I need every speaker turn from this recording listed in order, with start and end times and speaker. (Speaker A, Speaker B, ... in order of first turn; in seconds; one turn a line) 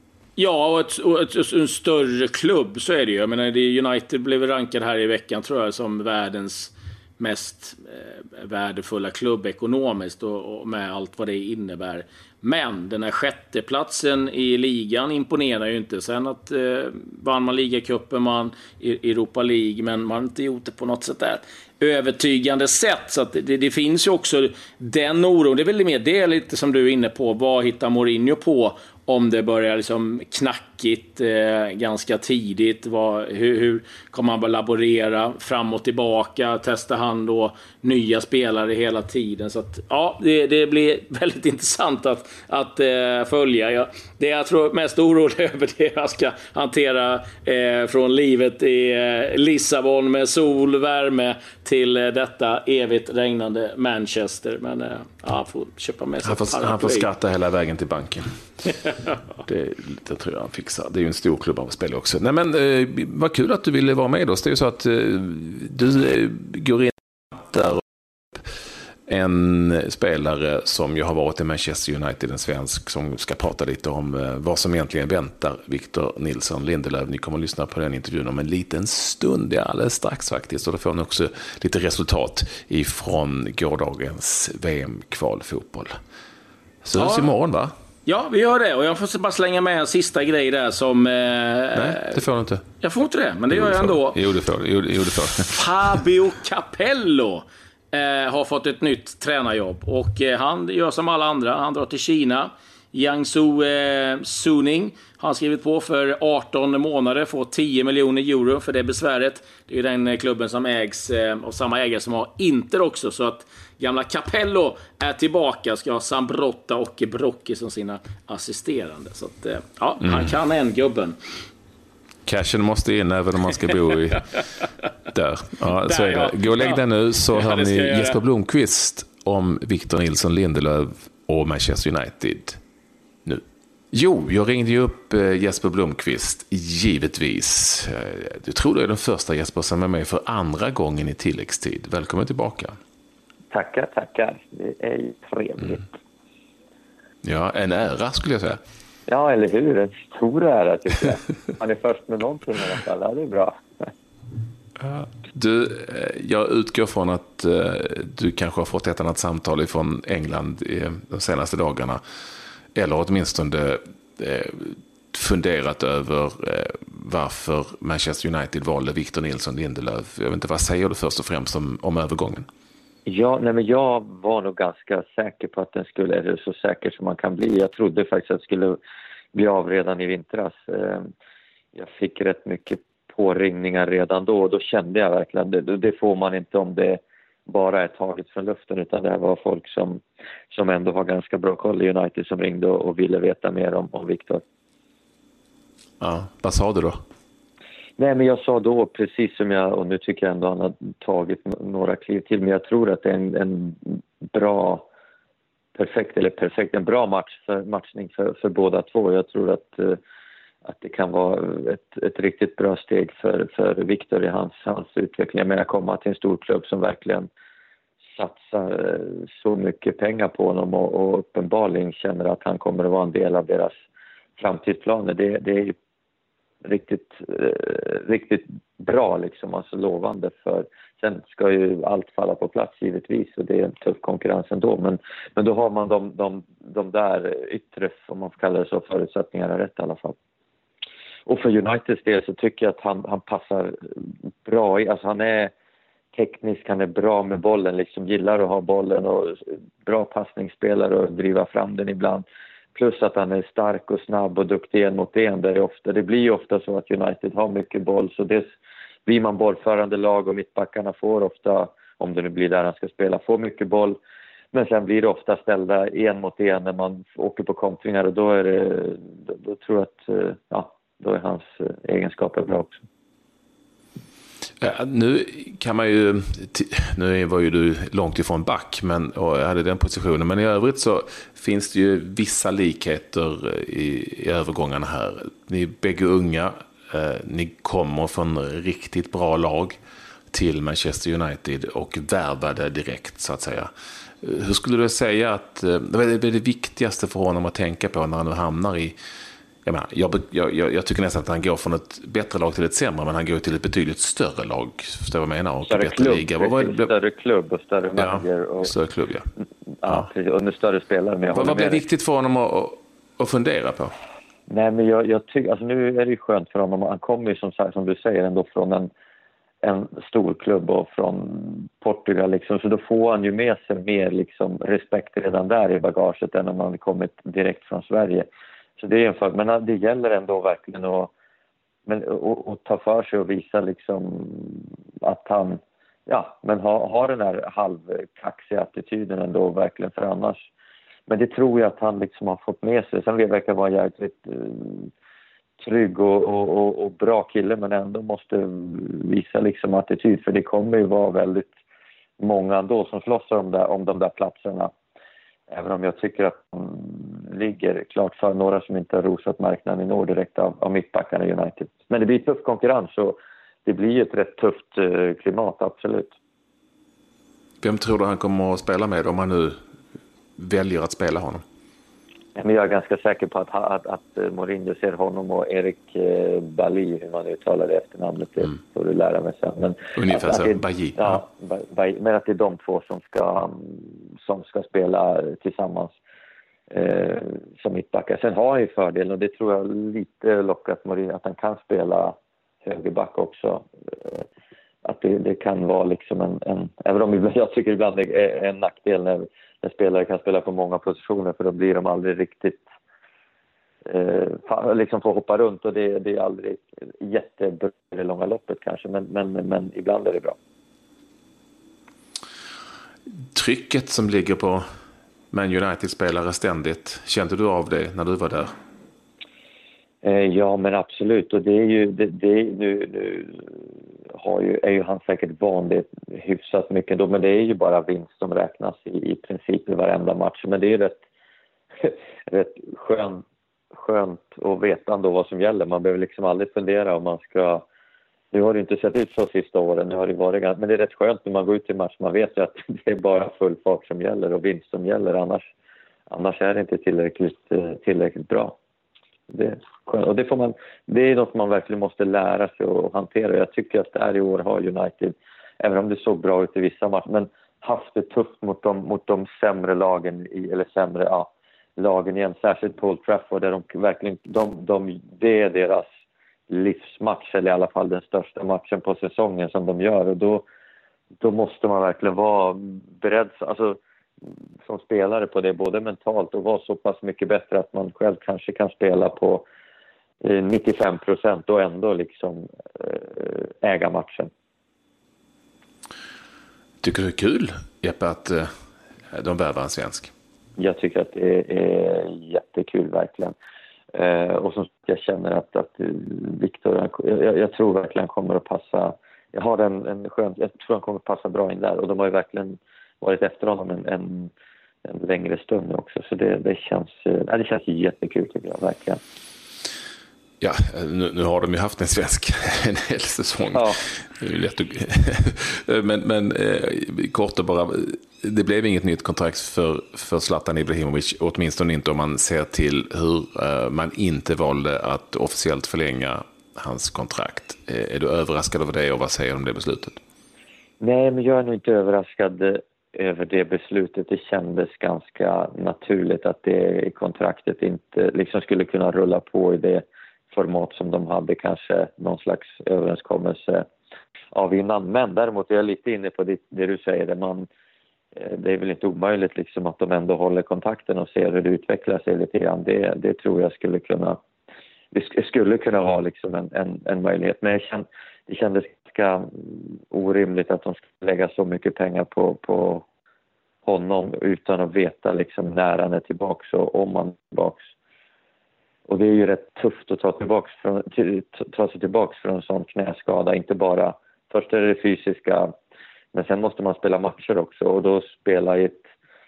Speaker A: 0.4-57.1
Speaker B: 56.2-58.3
Speaker B: 59.5-67.8
Speaker B: 69.1-85.9
Speaker B: 86.8-87.7
Speaker A: 87.0-87.3
Speaker A: 88.1-92.2
Speaker B: 91.8-92.7
Speaker A: 92.8-94.2
Speaker B: 93.5-96.0
Speaker A: 95.4-121.2
Speaker B: 122.3-124.2
Speaker A: 124.3-124.7
Speaker B: 125.1-132.6
Speaker A: 125.8-128.2
Speaker B: 133.2-142.8
Speaker C: 143.5-145.9
Speaker B: 147.2-148.6
Speaker C: 149.1-153.5
Speaker B: 154.8-162.0
Speaker B: 162.8-172.5
Speaker C: 173.1-178.8
Speaker C: 179.3-181.1
Speaker C: 181.8-194.4
Speaker B: 196.0-197.0
Speaker C: 198.0-204.9
Speaker C: 205.8-210.0
Speaker C: 210.7-217.3
Speaker C: 218.2-223.7
Speaker C: 224.4-225.8
Speaker C: 226.6-240.2
Speaker C: 241.3-245.5
Speaker C: 246.1-258.5
Speaker C: 259.1-264.0
Speaker C: 264.5-272.8
Speaker B: 274.6-289.8
Speaker B: 290.3-293.7
Speaker B: 294.2-299.0
Speaker B: 299.6-306.9
Speaker C: 305.7-308.7
Speaker B: 308.0-309.3
Speaker C: 309.8-311.8
Speaker B: 311.3-313.9
Speaker C: 314.5-318.9
Speaker C: 319.6-328.3
Speaker C: 328.8-331.1
Speaker C: 331.9-340.4
Speaker C: 341.1-344.9
Speaker C: 345.6-351.5
Speaker C: 352.2-354.7
Speaker C: 355.5-366.1
Speaker B: 367.6-369.6
Speaker B: 370.4-371.4
Speaker C: 372.4-386.0
Speaker B: 380.0-381.2
Speaker C: 386.7-394.2
Speaker C: 394.9-402.7
Speaker C: 403.9-410.4
Speaker B: 413.4-414.6
Speaker B: 415.3-418.5
Speaker C: 420.0-423.6
Speaker C: 424.1-431.0
Speaker C: 431.8-433.2
Speaker C: 433.7-437.6
Speaker C: 438.3-445.5
Speaker C: 446.1-448.6
Speaker C: 449.3-465.9
Speaker C: 466.5-470.4
Speaker C: 471.2-473.8
Speaker C: 474.7-479.5
Speaker C: 480.2-484.3
Speaker B: 486.8-488.5
Speaker B: 489.1-490.1
Speaker C: 490.6-493.3
Speaker C: 493.9-504.3
Speaker C: 504.9-509.0
Speaker B: 510.4-530.0
Speaker C: 513.5-513.8
Speaker C: 530.8-543.7
Speaker C: 544.3-547.5
Speaker C: 548.2-554.2
Speaker C: 554.9-562.8
Speaker C: 563.6-567.7
Speaker C: 568.9-575.5
Speaker C: 576.1-578.8